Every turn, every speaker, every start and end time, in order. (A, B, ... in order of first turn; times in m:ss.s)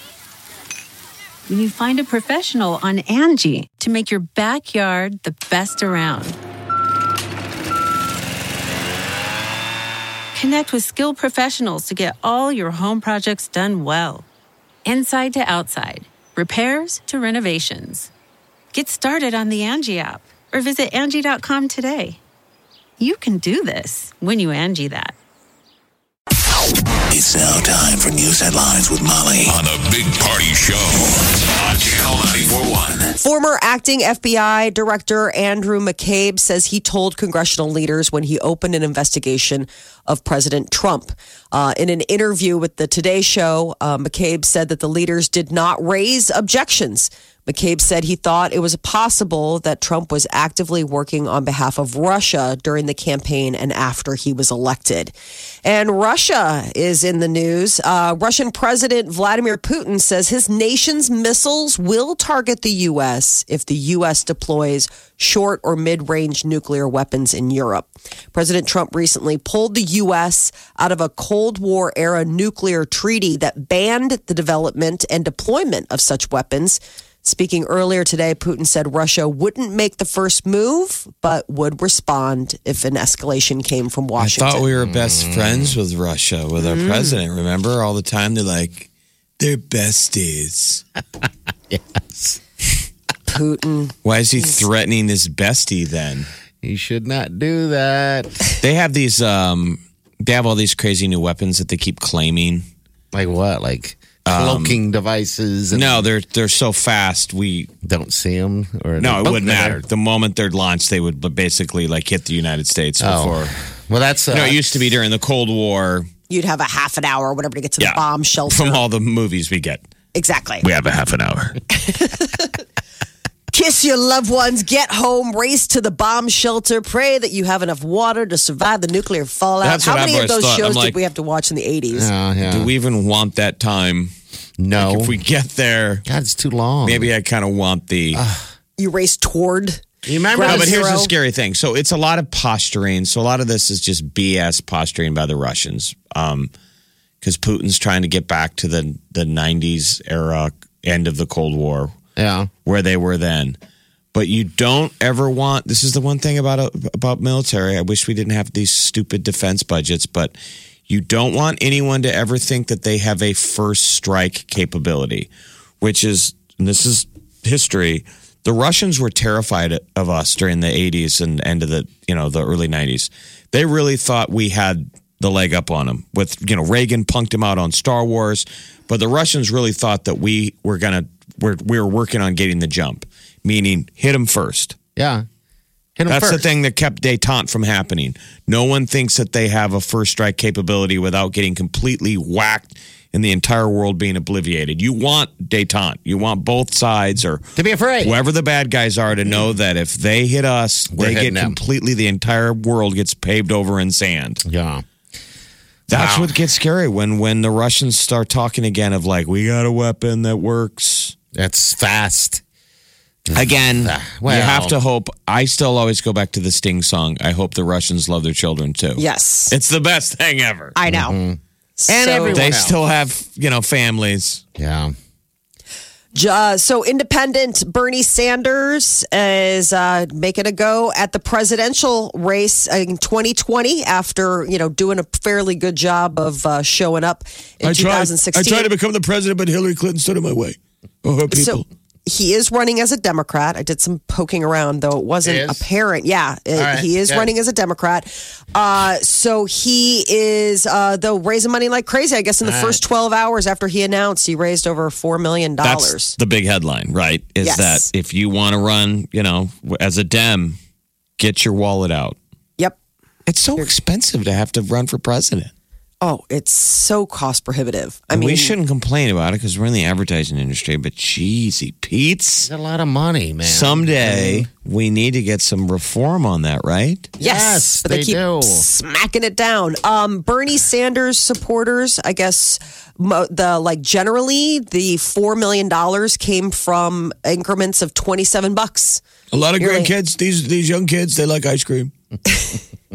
0:01.5-0:06.4 A
0:10.3-0:14.2 A
0:14.8-0:18.1 A
0:18.7-0:22.2 A
0:23.0-0:25.2 A
0:27.1-0:33.1 B
0:33.2-1:24.6 C
1:24.2-1:28.9 D
1:24.8-1:25.8 E
1:26.6-1:27.2 C
1:29.4-1:30.8 D
1:31.7-1:32.4 E
1:33.3-1:33.9 C
1:34.0-1:36.3 D
1:36.6-1:38.4 E
1:38.6-1:42.6 D
1:43.1-1:46.1 E
1:44.2-1:44.8 D
1:45.7-1:47.7 D
1:47.8-1:49.8 E
1:49.0-1:53.5 D
1:53.0-1:54.6 E
1:54.3-1:56.1 D
1:56.3-1:58.8 C
1:57.8-1:59.8 D
2:00.1-2:00.6 C
2:00.6-2:01.6 D
2:01.7-2:02.6 C
2:03.5-2:12.1 C
2:09.6-2:11.0 D
2:11.9-2:12.7 E
2:12.4-2:14.1 D
2:14.6-2:15.1 E
2:14.8-2:16.0 D
2:16.0-2:17.1 E
2:16.8-2:18.2 D
2:18.1-2:18.5 E
2:18.8-2:21.1 C
2:20.0-2:20.8 E
2:20.4-2:26.5 D
2:27.2-2:31.9 D
2:32.2-2:32.5 E
2:32.6-2:33.6 D
2:34.1-2:40.3 D
2:40.9-2:45.3 D
2:45.8-3:04.8 D
3:05.0-3:05.2 E
3:06.0-3:06.4 E
3:06.1-3:17.4 D
3:17.6-3:18.1 E
3:18.0-3:24.4 D
3:20.9-3:21.6 E
3:24.4-3:24.8 E
3:25.9-3:26.3 E
3:25.9-3:31.1 D
3:31.3-3:32.4 E
3:33.3-3:34.7 E
3:33.3-3:40.7 D
3:39.0-3:39.5 C
3:40.7-3:41.2 C
3:40.8-3:42.7 E
3:41.8-3:42.4 C
3:42.3-3:44.4 D
3:44.6-3:44.9 E
3:46.1-3:58.7 C
3:57.6-4:01.6 D
4:01.3-4:16.2 C
4:05.2-4:05.6 E
4:06.5-4:07.3 E
4:12.4-4:12.8 E
4:15.6-4:20.6 D
4:17.4-4:17.9 C
4:21.2-4:22.2 D
4:23.3-4:25.5 D
4:26.0-4:28.5 C
4:28.1-4:32.5 D
4:32.4-4:34.5 E
4:33.4-4:37.1 D
4:37.2-4:38.7 E
4:37.2-4:49.0 C
4:49.3-4:51.9 D
4:49.6-4:49.9 C